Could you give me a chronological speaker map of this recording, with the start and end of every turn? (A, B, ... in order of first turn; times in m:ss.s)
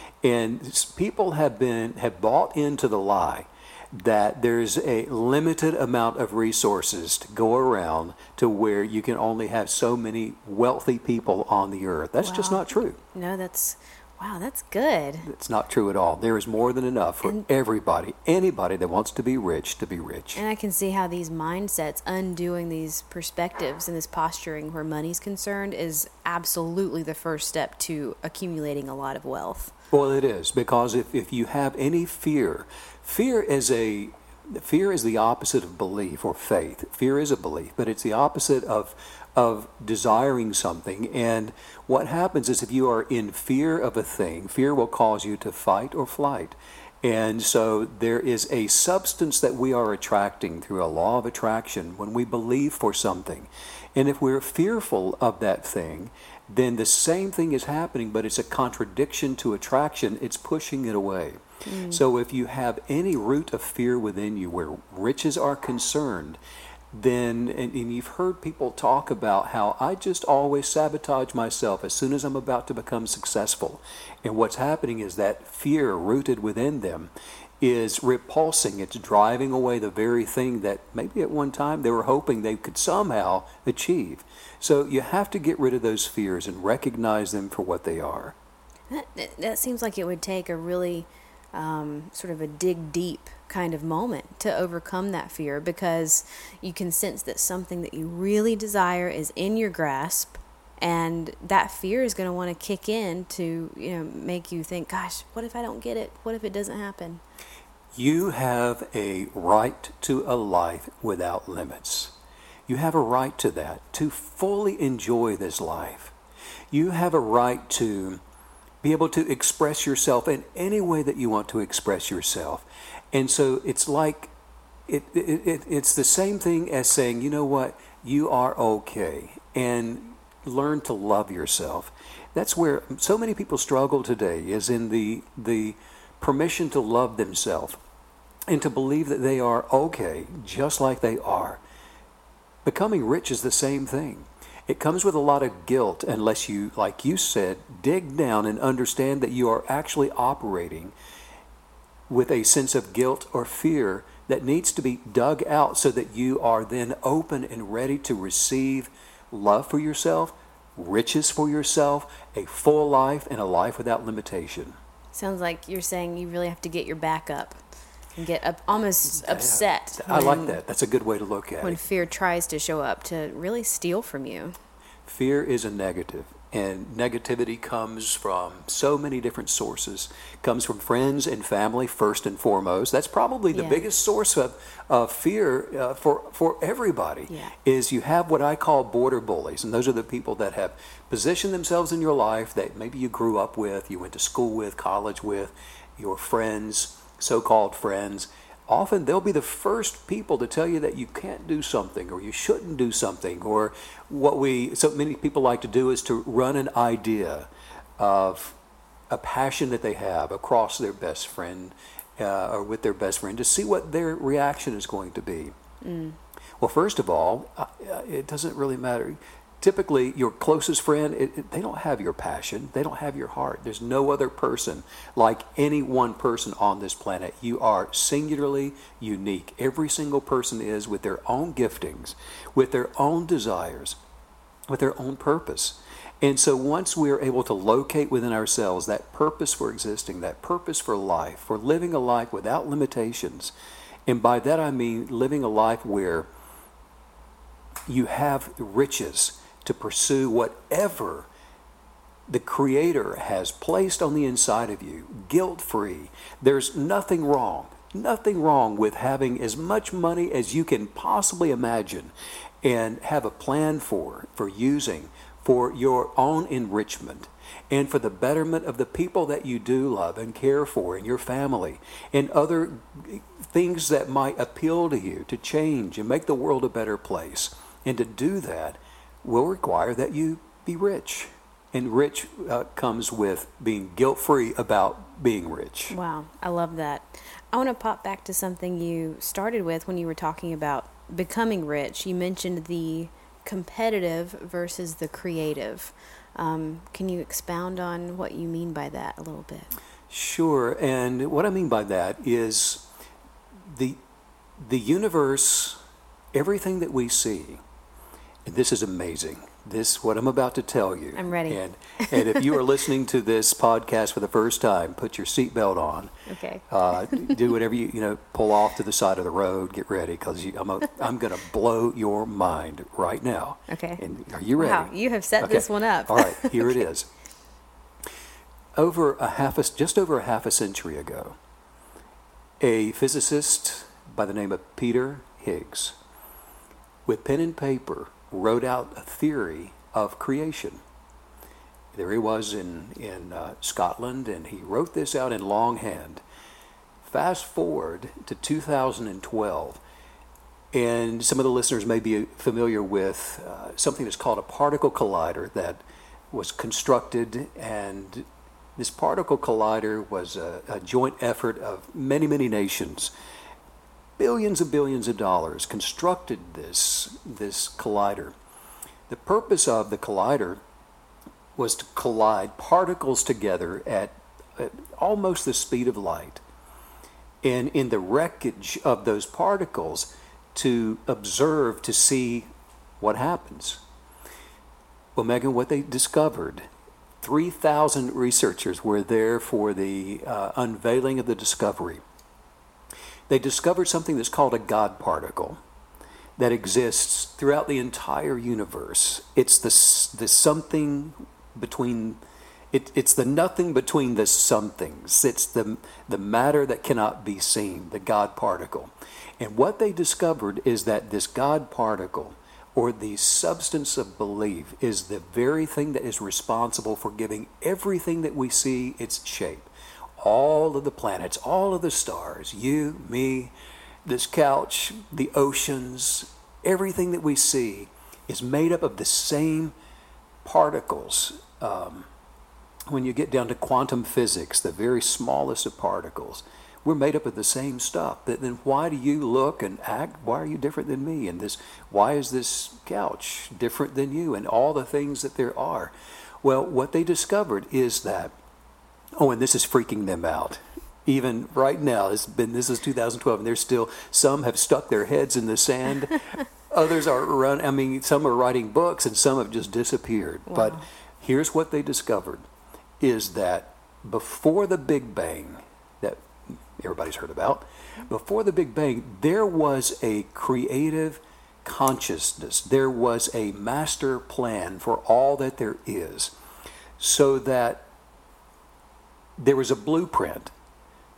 0:00.2-0:13.0 A
0:12.2-0:15.3 B
0:15.2-0:20.4 A
0:20.4-0:29.7 B
0:29.9-1:06.4 A
1:01.6-1:02.0 B
1:06.9-1:28.4 A
1:28.9-1:47.2 B
1:48.0-1:52.1 A
1:52.7-1:56.1 A
1:56.7-1:58.2 A
1:58.8-2:04.3 A
2:04.9-2:17.8 A
2:18.5-2:21.6 A
2:22.6-2:30.9 A
2:32.1-2:44.8 A
2:45.1-2:47.6 B
2:48.2-2:50.6 B
2:49.1-2:51.8 A
2:51.6-2:54.6 B
2:55.1-3:28.6 A
3:03.5-3:03.8 B
3:29.1-3:35.5 A
3:35.8-3:36.2 B
3:36.6-3:54.0 A
3:54.7-4:03.5 A
4:04.1-4:06.3 A
4:07.9-4:11.3 A
4:12.3-4:22.1 A
4:22.6-4:46.0 A
4:45.9-4:59.7 B
5:00.1-5:02.9 A
5:03.7-5:04.0 A
5:04.6-5:05.8 A
5:06.3-5:07.6 A
5:08.5-5:16.1 A
5:11.2-5:12.5 B
5:16.3-5:17.3 B
5:16.7-5:27.1 A
5:23.7-5:24.0 B
5:24.6-5:26.8 B
5:28.8-5:31.4 A
5:32.6-5:36.0 A
5:37.1-5:40.8 A
5:41.9-5:46.2 A
5:47.0-5:49.8 A
5:50.7-6:03.1 A
6:04.2-6:08.3 A
6:09.1-6:10.6 A
6:11.6-6:16.4 A
6:17.4-6:22.5 A
6:23.0-6:23.8 A
6:25.2-6:26.7 A
6:27.2-6:32.0 A
6:33.3-6:35.6 A
6:36.4-6:42.2 A
6:42.7-7:03.5 A
7:04.1-7:09.7 A
7:10.4-7:12.1 A
7:12.9-7:25.9 A
7:26.4-7:28.3 A
7:29.2-7:42.5 A
7:40.5-7:40.8 B
7:43.0-7:56.3 A
7:57.0-7:57.9 A
7:59.4-8:00.5 A